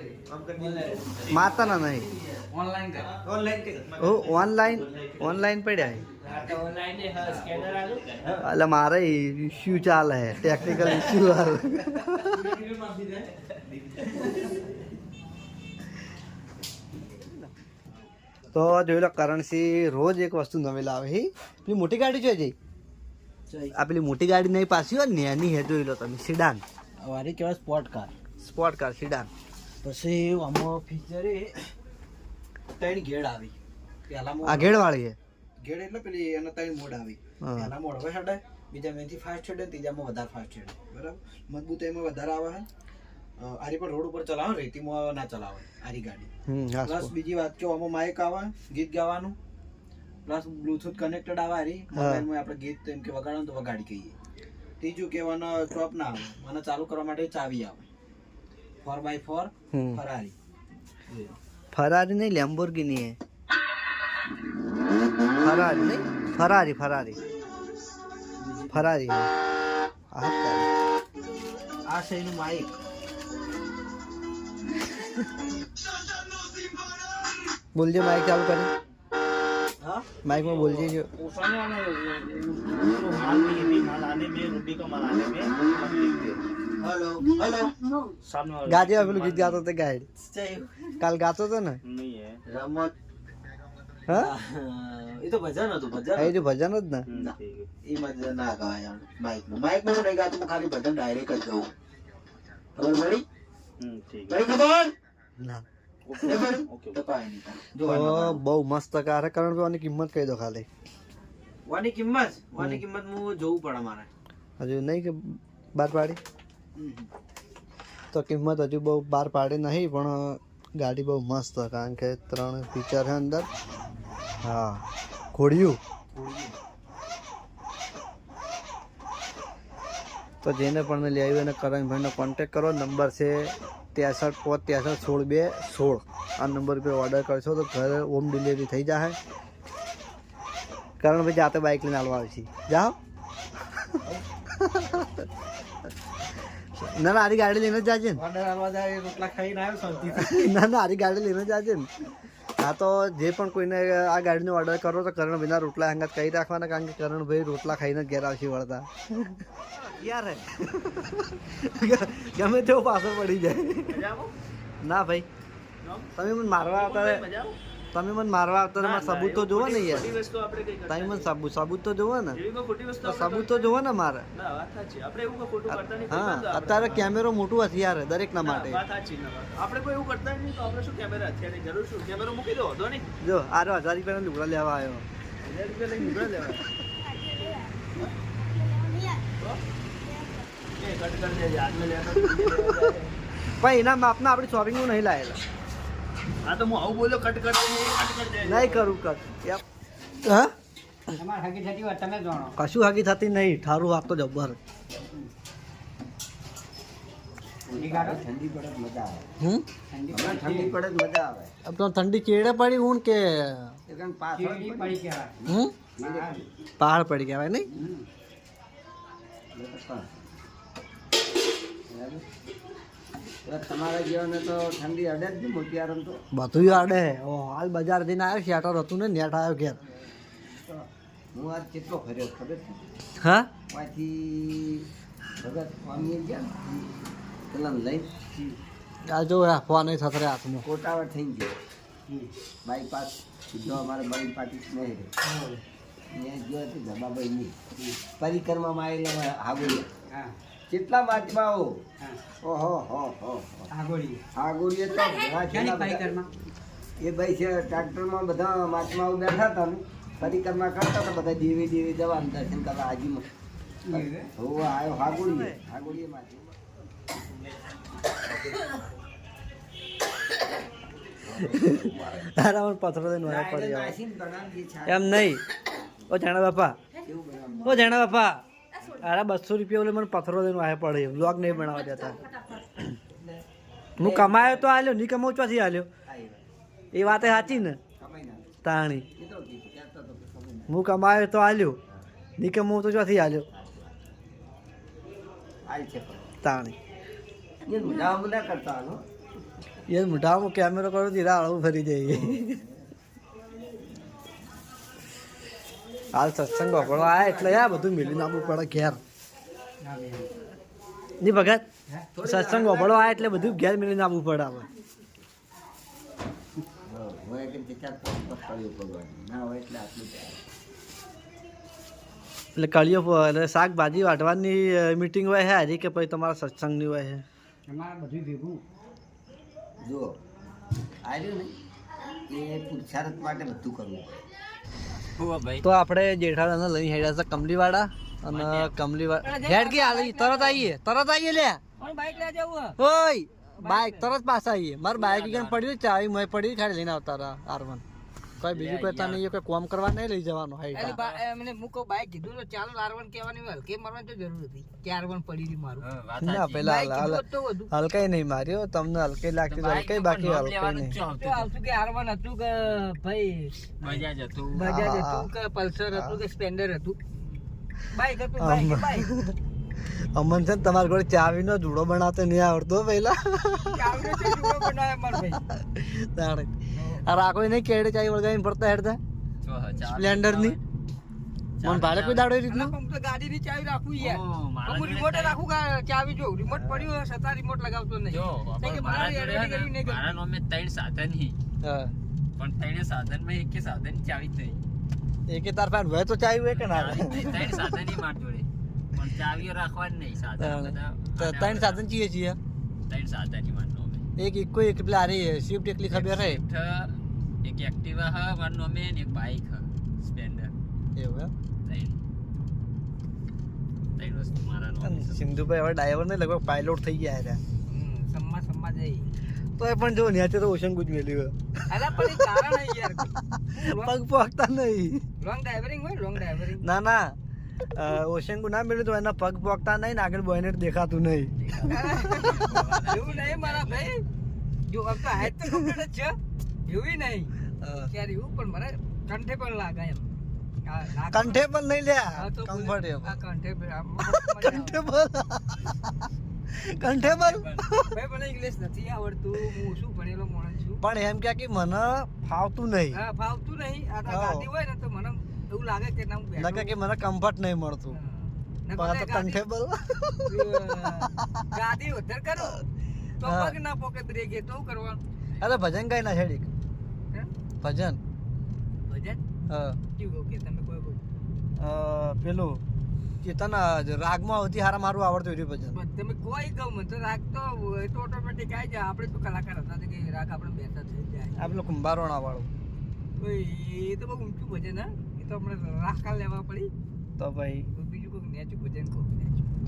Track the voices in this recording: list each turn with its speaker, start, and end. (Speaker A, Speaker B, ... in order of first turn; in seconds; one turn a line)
Speaker A: 0.3-1.7
Speaker B: 0.6-1.0
Speaker C: 1.3-2.1
Speaker B: 2.5-3.1
Speaker A: 3.3-4.2
Speaker C: 4.0-6.0
Speaker A: 5.0-5.3
Speaker A: 6.2-8.4
Speaker B: 6.4-7.5
Speaker C: 8.4-12.6
Speaker C: 18.5-22.6
Speaker A: 23.5-23.8
Speaker C: 23.7-26.6
Speaker A: 27.0-28.1
Speaker C: 28.4-29.3
Speaker A: 29.8-31.7
Speaker A: 32.8-33.6
Speaker A: 34.1-34.7
Speaker C: 34.4-35.2
Speaker A: 35.6-42.7
Speaker C: 37.4-37.7
Speaker A: 43.4-46.3
Speaker C: 46.5-47.1
Speaker A: 46.9-49.4
Speaker A: 50.3-54.1
Speaker C: 51.9-52.3
Speaker A: 54.8-57.9
Speaker A: 58.9-60.4
Speaker C: 59.7-60.0
Speaker A: 61.1-61.4
Speaker C: 61.7-63.2
Speaker C: 65.4-67.2
Speaker C: 68.7-69.3
Speaker C: 70.1-70.7
Speaker A: 71.9-72.7
Speaker C: 77.7-78.7
Speaker A: 79.8-89.6
Speaker C: 80.2-81.1
Speaker C: 88.7-90.1
Speaker A: 90.3-90.7
Speaker C: 91.0-91.8
Speaker A: 91.8-92.8
Speaker C: 94.1-94.3
Speaker A: 94.1-96.4
Speaker C: 96.2-97.3
Speaker A: 97.1-101.7
Speaker A: 102.8-103.2
Speaker A: 103.8-104.9
Speaker C: 105.4-105.7
Speaker A: 106.1-108.4
Speaker C: 107.8-110.7
Speaker A: 111.7-114.1
Speaker C: 114.6-116.2
Speaker A: 116.8-117.1
Speaker C: 118.1-123.5
Speaker C: 124.4-125.8
Speaker C: 130.4-139.2
Speaker C: 141.0-143.0
Speaker C: 144.5-145.3
Speaker C: 146.8-148.2
Speaker A: 148.2-150.4
Speaker C: 150.1-151.9
Speaker C: 152.6-159.5
Speaker A: 159.8-160.4
Speaker C: 160.6-164.1
Speaker A: 163.9-164.3
Speaker C: 164.8-165.3
Speaker A: 165.8-166.1
Speaker C: 166.2-167.3
Speaker A: 166.7-167.6
Speaker C: 167.9-170.2
Speaker A: 168.8-171.3
Speaker C: 170.9-172.4
Speaker A: 172.3-173.8
Speaker C: 173.0-174.3
Speaker A: 174.3-177.1
Speaker C: 175.7-178.8
Speaker A: 178.4-183.1
Speaker C: 183.2-185.1
Speaker A: 185.4-186.7
Speaker A: 190.8-193.1
Speaker C: 192.4-192.9
Speaker C: 193.5-195.4
Speaker A: 196.4-198.9
Speaker C: 198.4-199.6
Speaker C: 200.2-200.5
Speaker B: 201.2-202.6
Speaker C: 202.6-204.6
Speaker D: 207.7-209.3
Speaker B: 207.7-208.2
Speaker B: 209.9-210.8
Speaker D: 210.1-211.5
Speaker C: 211.7-213.8
Speaker D: 213.9-216.5
Speaker B: 214.3-215.3
Speaker C: 215.5-215.7
Speaker B: 216.0-216.4
Speaker C: 216.8-217.7
Speaker D: 217.7-218.0
Speaker D: 219.5-220.1
Speaker D: 221.9-222.2
Speaker D: 223.4-226.8
Speaker C: 226.3-229.8
Speaker D: 229.8-232.9
Speaker C: 233.2-233.5
Speaker D: 233.7-234.9
Speaker D: 235.4-236.9
Speaker D: 237.5-238.6
Speaker C: 239.1-240.7
Speaker D: 240.6-241.6
Speaker D: 242.6-245.1
Speaker B: 245.2-245.6
Speaker D: 246.1-249.9
Speaker D: 250.7-251.8
Speaker D: 252.4-253.7
Speaker B: 253.7-254.2
Speaker D: 254.4-256.2
Speaker B: 255.4-256.3
Speaker D: 257.0-263.3
Speaker B: 263.9-264.3
Speaker D: 263.9-266.6
Speaker C: 265.1-265.6
Speaker D: 268.4-268.7
Speaker D: 271.2-272.3
Speaker C: 271.8-274.0
Speaker D: 273.2-275.1
Speaker C: 274.9-275.4
Speaker C: 276.1-276.8
Speaker D: 277.0-278.0
Speaker C: 277.6-278.4
Speaker C: 279.0-282.8
Speaker D: 283.1-283.4
Speaker D: 284.0-284.6
Speaker C: 284.0-285.9
Speaker D: 286.1-286.4
Speaker C: 286.9-287.8
Speaker D: 287.1-288.5
Speaker C: 288.6-289.1
Speaker D: 289.1-290.7
Speaker C: 290.7-291.8
Speaker C: 292.4-293.5
Speaker D: 293.5-294.0
Speaker D: 295.7-296.3
Speaker C: 296.4-296.8
Speaker D: 297.6-299.0
Speaker C: 299.9-302.6
Speaker D: 302.1-302.9
Speaker C: 306.1-309.0
Speaker D: 306.8-308.8
Speaker B: 309.8-310.4
Speaker C: 311.2-311.6
Speaker D: 311.9-313.6
Speaker C: 312.2-314.7
Speaker D: 316.9-320.4
Speaker C: 322.6-327.2
Speaker B: 327.7-328.6
Speaker D: 329.8-330.2
Speaker D: 331.0-331.6
Speaker D: 332.3-334.2
Speaker E: 335.2-335.6
Speaker C: 335.6-341.6
Speaker E: 338.3-338.8
Speaker F: 339.2-340.7
Speaker F: 341.8-342.8
Speaker C: 342.8-347.8
Speaker F: 343.6-344.1
Speaker E: 344.9-345.6
Speaker C: 348.4-351.0
Speaker E: 348.4-349.3
Speaker F: 350.7-355.9
Speaker E: 350.8-351.2
Speaker E: 355.8-356.6
Speaker C: 356.2-361.0
Speaker F: 356.6-357.7
Speaker E: 359.5-361.5
Speaker F: 361.2-363.7
Speaker E: 363.8-364.8
Speaker C: 364.5-365.3
Speaker F: 364.6-367.1
Speaker C: 365.9-366.2
Speaker F: 367.9-369.1
Speaker C: 368.4-369.4
Speaker C: 369.9-374.5
Speaker F: 373.6-375.4
Speaker C: 375.5-376.5
Speaker F: 376.7-377.0
Speaker C: 377.1-379.0
Speaker E: 379.4-380.6
Speaker C: 379.8-380.6
Speaker E: 381.6-382.3
Speaker C: 381.6-382.8
Speaker F: 382.5-390.1
Speaker E: 384.0-385.4
Speaker C: 386.5-386.9
Speaker E: 388.1-391.4
Speaker C: 391.6-391.9
Speaker E: 392.4-394.6
Speaker C: 395.3-397.6
Speaker E: 396.6-401.8
Speaker C: 400.4-402.4
Speaker E: 402.9-404.0
Speaker C: 404.2-406.4
Speaker E: 405.9-410.6
Speaker C: 410.9-411.3
Speaker E: 411.6-412.0
Speaker E: 413.9-415.3
Speaker C: 414.8-417.4
Speaker F: 417.7-419.1
Speaker C: 419.6-422.3
Speaker F: 421.7-423.9
Speaker C: 423.4-425.1
Speaker F: 425.2-426.6
Speaker C: 426.6-427.1
Speaker C: 427.7-431.7
Speaker E: 431.4-433.9
Speaker F: 431.6-434.0
Speaker F: 434.7-437.3
Speaker C: 437.6-437.9
Speaker F: 437.9-441.5
Speaker C: 441.1-443.2
Speaker F: 442.2-444.9
Speaker C: 444.0-445.9
Speaker C: 446.5-447.9
Speaker E: 447.0-447.7
Speaker F: 447.9-450.8
Speaker C: 450.8-453.0
Speaker F: 452.9-456.8
Speaker C: 454.1-454.5
Speaker C: 456.4-458.0
Speaker F: 457.9-459.4
Speaker C: 458.8-461.5
Speaker F: 460.3-462.7
Speaker F: 463.2-465.0
Speaker C: 463.2-463.6
Speaker C: 465.4-466.5
Speaker C: 467.6-468.0
Speaker F: 468.9-469.2
Speaker C: 469.5-469.8
Speaker F: 470.0-471.0
Speaker C: 471.6-472.6
Speaker C: 473.2-475.8
Speaker F: 475.7-481.5
Speaker C: 481.4-482.5
Speaker F: 483.2-486.7
Speaker C: 487.2-487.7
Speaker F: 487.7-489.4